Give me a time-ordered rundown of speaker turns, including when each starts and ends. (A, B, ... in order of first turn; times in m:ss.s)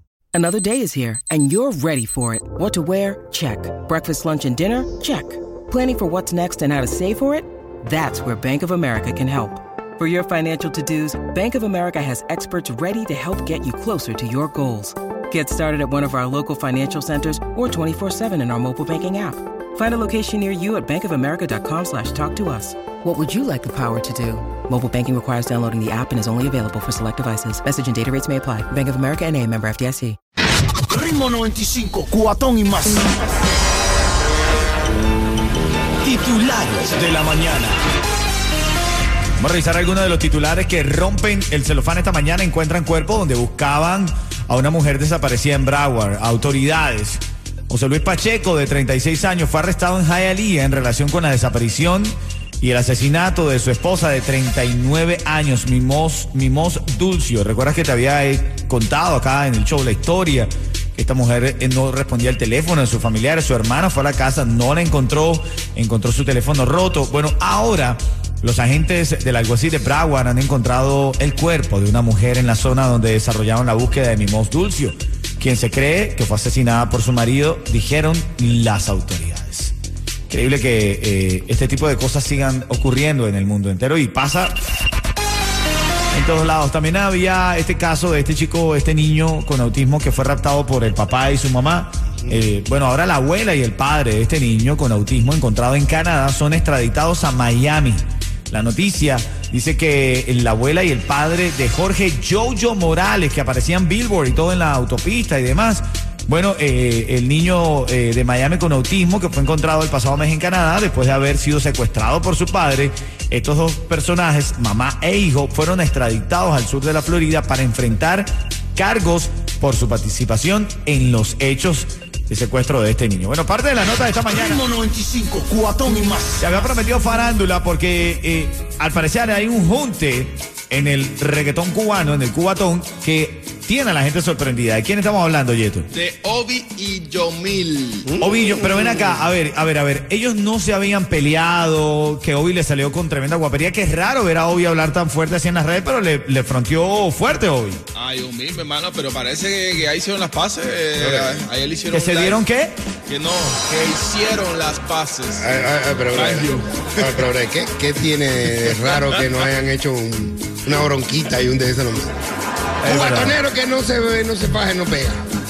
0:00.3-0:30.2 A
0:30.9-0:33.4 B
0:36.0-0:37.8 C
0:39.4-1:19.7 C
1:20.3-1:24.6 C
1:26.1-2:04.7 C
1:32.2-1:32.5 D
2:04.3-2:04.6 B
2:06.4-2:15.9 C
2:15.9-2:18.2 E
2:18.1-2:19.3 D
2:18.2-2:27.8 C
2:27.9-2:32.4 E
2:31.0-2:31.4 D
2:31.9-2:32.8 C
2:33.1-2:37.3 E
2:35.4-2:42.1 D
2:42.8-2:43.4 C
2:42.8-2:45.4 D